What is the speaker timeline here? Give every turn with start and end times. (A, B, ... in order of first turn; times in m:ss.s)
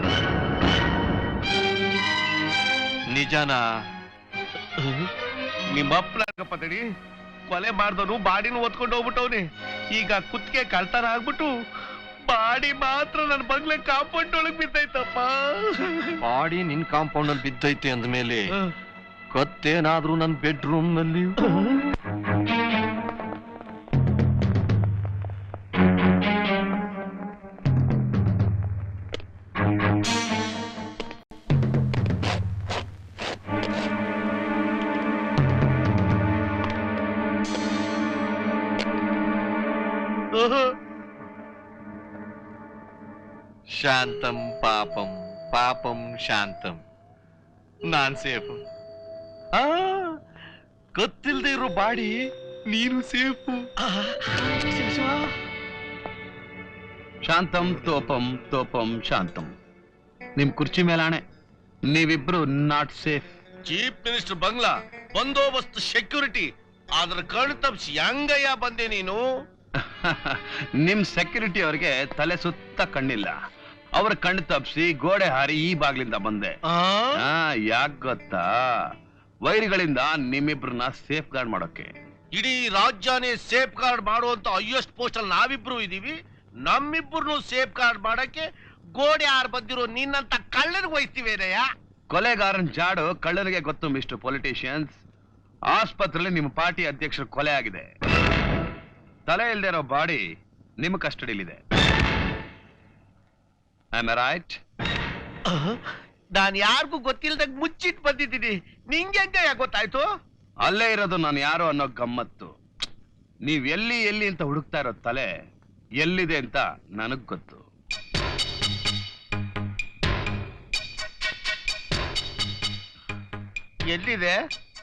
0:03.1-0:03.6 A
0:05.7-0:06.8 B
0:07.5-0:11.5 B
0:12.3-0:16.1 B
0:16.2-0:18.5 A
0:19.3-0:21.4 A
0:43.7-0:46.8 A
0:47.9-0:48.6 A
0:49.6-0:50.1 A
0:51.0-0:52.2 A
0:52.7-0:53.7 A
0:54.6-0:55.0 B
0:57.2-0:59.5 C
1:00.4-1:01.2 C
1:01.9-1:03.3 C
1:03.7-1:09.2 B
1:09.8-1:13.4 C
1:14.0-1:16.6 C
1:16.7-1:17.3 B
1:17.2-1:18.5 C
1:19.4-1:21.9 C
1:22.3-1:31.6 B
1:32.1-1:35.0 C
1:35.7-1:37.9 C
1:39.3-1:40.2 C
1:40.8-1:41.6 C
1:43.9-1:44.6 C
1:45.5-1:45.8 B
1:46.3-1:50.1 B
1:50.6-1:52.5 C
1:53.4-1:55.3 C
1:56.0-1:57.6 C
2:03.9-2:04.4 B